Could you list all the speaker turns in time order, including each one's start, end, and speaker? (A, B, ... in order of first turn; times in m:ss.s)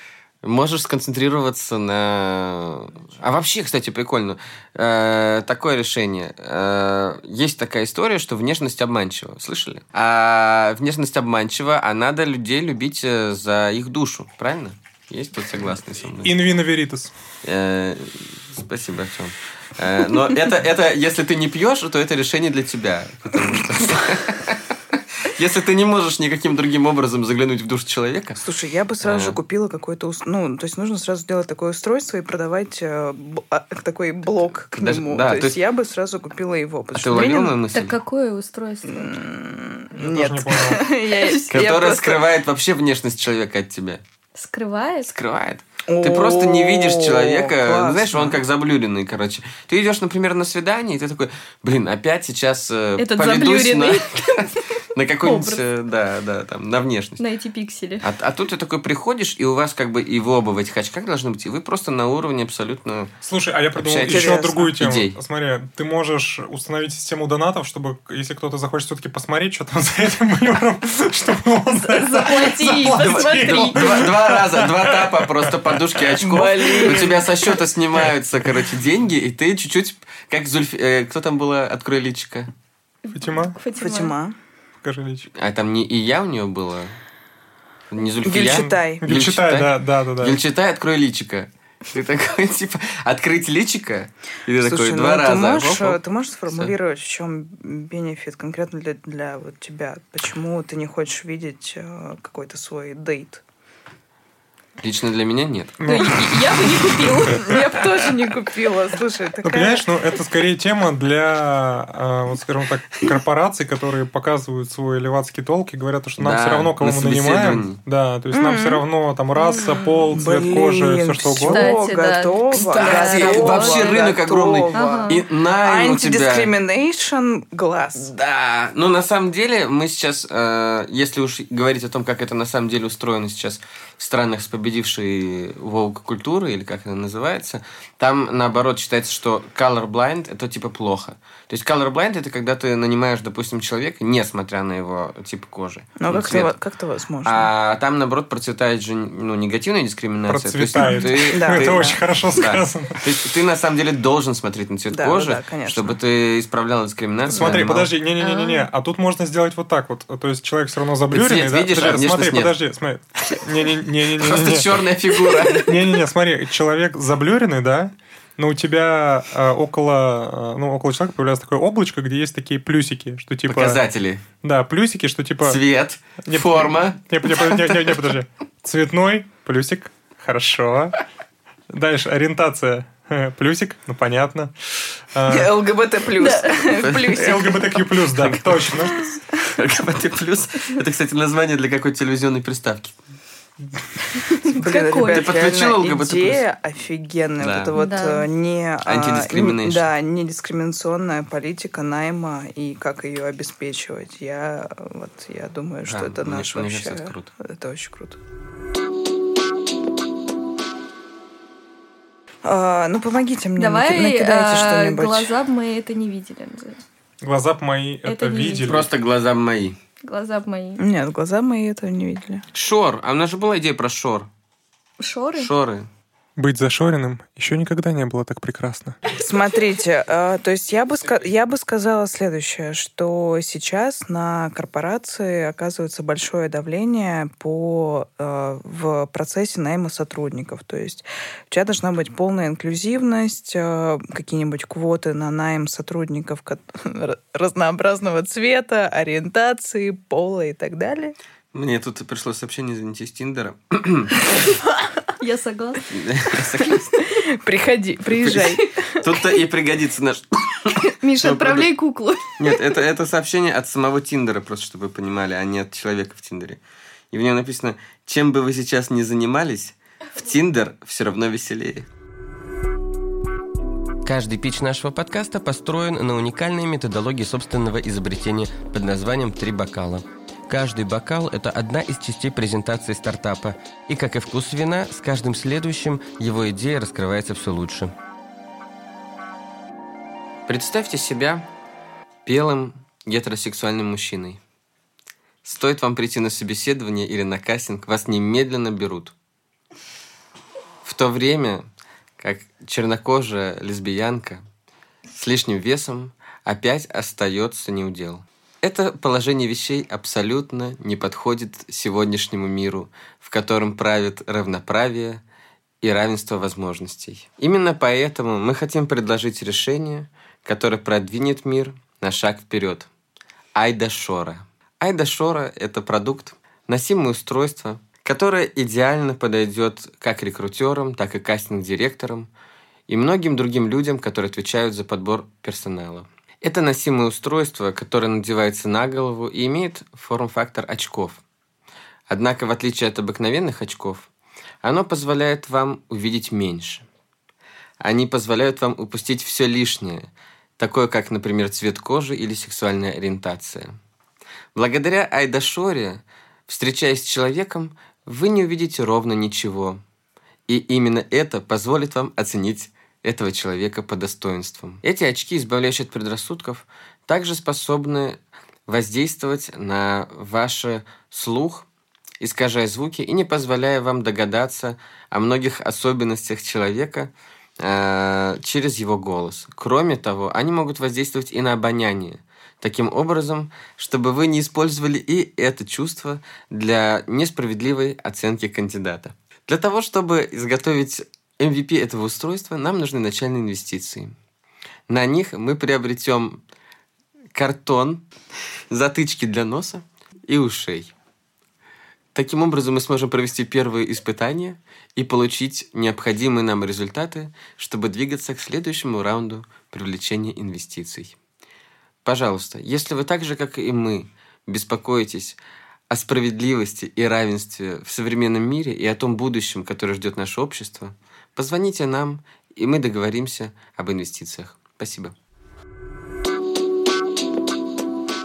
0:00.4-0:16.5 A
0:16.2-0:17.1 B
0:17.4-0:28.4 A
0:28.4-0:37.5 C
0:29.0-0:29.4 A
0:34.7-0:35.6 A
0:36.9-0:38.0 A
0:37.2-0:39.2 D
0:38.9-0:42.3 C
0:39.9-0:40.9 B
0:41.5-0:44.0 A
0:44.4-0:45.1 D
0:45.1-0:57.2 A
0:45.8-0:48.4 C
0:53.0-0:54.6 D
0:55.2-0:55.6 D
0:57.2-0:58.0 D
0:58.0-1:03.1 A
1:03.2-1:16.4 B
1:03.8-1:05.2 A
1:04.1-1:04.7 C
1:11.8-1:14.0 D
1:13.0-1:22.5 A
1:16.2-1:17.3 C
1:23.0-1:24.1 D
1:23.1-1:23.6 B
1:23.8-1:24.4 C
1:24.8-1:25.3 B
1:25.4-1:26.9 A
1:27.9-1:36.7 A
1:28.2-1:29.1 C
1:28.4-1:30.4 B
1:34.5-1:43.4 C
1:44.8-1:46.0 A
1:45.8-1:46.3 B
1:45.8-1:47.6 D
1:47.2-1:49.9 C
1:49.4-2:01.8 B
1:56.2-1:57.8 A
1:58.3-1:58.8 C
1:59.4-2:08.1 C
2:01.4-2:04.0 D
2:02.7-2:06.5 A
2:04.7-2:05.2 D
2:08.0-2:26.5 A
2:26.0-2:27.5 C
2:27.2-2:37.9 A
2:30.3-2:33.0 B
2:30.8-2:32.0 C
2:34.9-2:36.0 C
2:37.3-2:44.8 B
2:37.4-2:37.6 C
2:38.2-2:38.6 D
2:41.1-2:42.5 A
2:44.1-2:45.8 A
2:45.4-2:53.8 B
2:53.5-2:54.2 A
2:54.4-2:55.6 B
2:55.4-2:58.0 A
2:56.3-3:01.0 B
3:01.7-3:05.6 B
3:05.3-3:07.8 C
3:06.2-3:06.7 D
3:06.8-3:07.2 A
3:07.0-3:09.2 B
3:08.1-3:08.7 A
3:09.5-3:13.0 A
3:14.4-3:15.3 D
3:14.4-3:28.2 C
3:15.1-3:16.4 A
3:17.4-3:17.8 A
3:17.8-3:18.3 D
3:18.8-3:19.9 A
3:25.9-3:27.3 A
3:32.4-3:35.3 C
3:33.6-3:36.8 D
3:37.2-3:38.9 B
3:38.0-3:38.7 D
3:38.6-3:39.8 A
3:40.0-3:40.8 D
3:40.8-3:42.4 C
3:42.5-3:44.3 A
3:45.0-3:45.5 D
3:45.4-3:45.9 A
3:46.4-3:49.0 B
3:49.1-4:11.2 C
4:11.5-4:14.4 A
4:15.2-4:15.9 D
4:15.9-4:17.0 A
4:17.0-4:18.8 C
4:18.1-4:21.7 A
4:20.7-4:22.6 D
4:22.4-4:26.6 A
4:27.1-4:31.9 A
4:34.0-4:47.9 E
4:50.5-4:51.4 A
4:52.2-4:54.4 A
4:55.4-4:59.1 A
5:00.8-5:01.6 A
5:02.2-5:04.4 A
5:05.1-5:15.2 A
5:15.8-5:22.9 A
5:23.5-5:32.3 A
5:32.9-5:41.2 A
5:42.1-5:44.1 A
5:44.6-5:46.8 A
5:47.8-5:50.1 A
5:50.6-5:53.7 A
5:54.5-5:59.8 A
6:00.5-6:11.6 A
6:12.2-6:34.1 A
6:34.9-6:36.4 A
6:37.3-6:38.0 A
6:38.7-6:40.9 A
6:42.1-6:51.2 A
6:52.0-6:55.4 A
6:55.9-7:05.1 A